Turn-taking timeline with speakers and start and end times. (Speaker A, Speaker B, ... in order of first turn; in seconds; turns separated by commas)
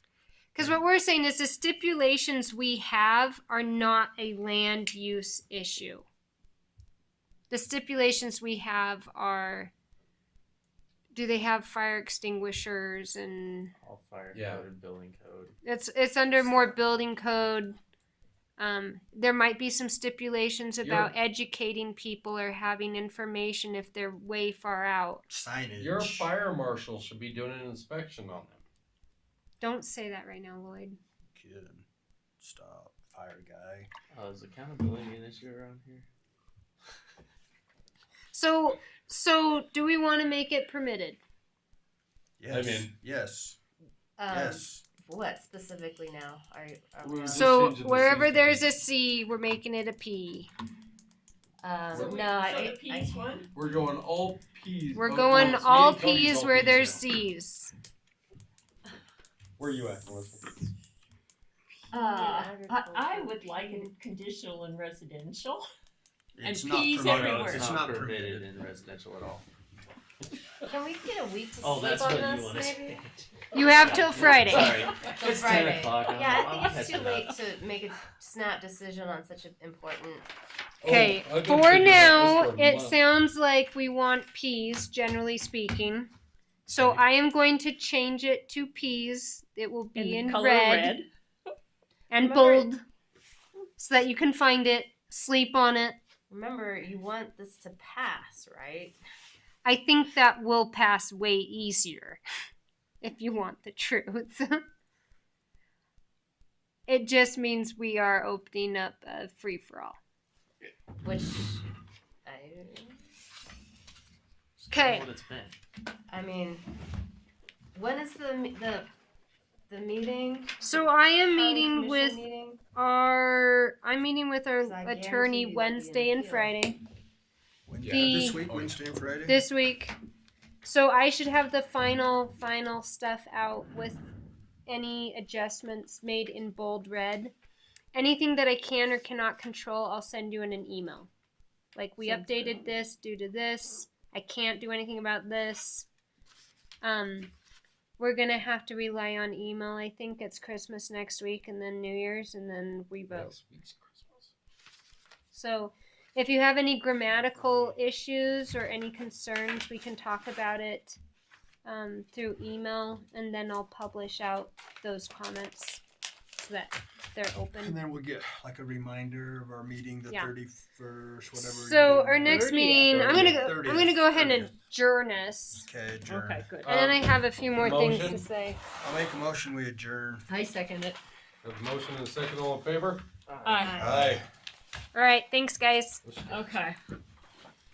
Speaker A: 0.5-6.0, Speaker A: 7.5-9.7, Speaker A: 11.1-13.7, Speaker B: 13.8-15.6, Speaker C: 14.3-14.6, Speaker A: 15.6-17.8, Speaker A: 18.6-25.2, Speaker C: 20.8-21.1, Speaker D: 25.3-26.3, Speaker C: 25.8-28.6, Speaker A: 29.6-31.0, Speaker D: 31.3-31.9, Speaker D: 32.4-33.9, Speaker B: 34.1-36.0, Speaker A: 38.3-41.2, Speaker D: 42.4-43.6, Speaker C: 42.5-42.9, Speaker E: 44.2-47.6, Speaker D: 44.3-44.8, Speaker C: 47.0-48.7, Speaker A: 47.3-50.5, Speaker E: 51.6-53.5, Speaker C: 51.9-52.2, Speaker F: 51.9-53.5, Speaker C: 53.5-57.0, Speaker A: 54.9-57.7, Speaker C: 59.6-60.6, Speaker F: 61.9-65.6, Speaker E: 61.9-63.9, Speaker D: 66.3-68.5, Speaker F: 66.4-67.7, Speaker B: 67.1-69.4, Speaker E: 70.6-73.1, Speaker B: 71.6-77.3, Speaker A: 73.5-74.8, Speaker E: 75.0-80.2, Speaker C: 80.8-83.0, Speaker A: 80.8-86.1, Speaker A: 86.7-91.0, Speaker C: 86.8-87.0, Speaker F: 89.9-91.1, Speaker A: 92.1-92.8, Speaker E: 92.2-92.7, Speaker A: 93.8-96.0, Speaker E: 96.3-99.0, Speaker A: 99.6-102.2, Speaker A: 103.0-104.6, Speaker A: 106.9-110.0, Speaker E: 111.0-111.6, Speaker E: 112.2-113.0, Speaker B: 114.6-115.5, Speaker A: 114.7-115.1, Speaker E: 116.1-116.6, Speaker E: 117.7-118.9, Speaker E: 119.7-120.6, Speaker A: 120.6-122.2, Speaker E: 121.3-122.6, Speaker A: 122.7-126.8, Speaker E: 124.6-126.5, Speaker D: 127.7-129.4, Speaker C: 127.8-128.8, Speaker A: 127.8-128.4, Speaker A: 129.2-129.9, Speaker A: 130.6-134.0, Speaker A: 134.7-137.3, Speaker A: 137.9-141.1, Speaker A: 141.7-145.9, Speaker E: 142.0-142.6, Speaker A: 146.8-147.3, Speaker A: 148.0-153.3, Speaker C: 153.1-154.3, Speaker A: 155.3-161.0, Speaker C: 157.4-157.7, Speaker A: 161.6-165.8, Speaker A: 166.3-167.8, Speaker D: 167.5-174.5, Speaker A: 171.3-175.7, Speaker B: 172.2-172.9, Speaker C: 172.9-173.9, Speaker D: 175.6-176.5, Speaker F: 176.0-176.6, Speaker C: 176.6-178.2, Speaker A: 176.6-178.6, Speaker D: 178.8-180.3, Speaker E: 180.3-181.0, Speaker C: 181.4-183.0, Speaker F: 183.4-183.8, Speaker E: 183.6-184.2, Speaker C: 183.7-184.2, Speaker D: 183.8-184.2, Speaker A: 184.9-186.0, Speaker C: 186.0-186.6, Speaker F: 186.3-186.8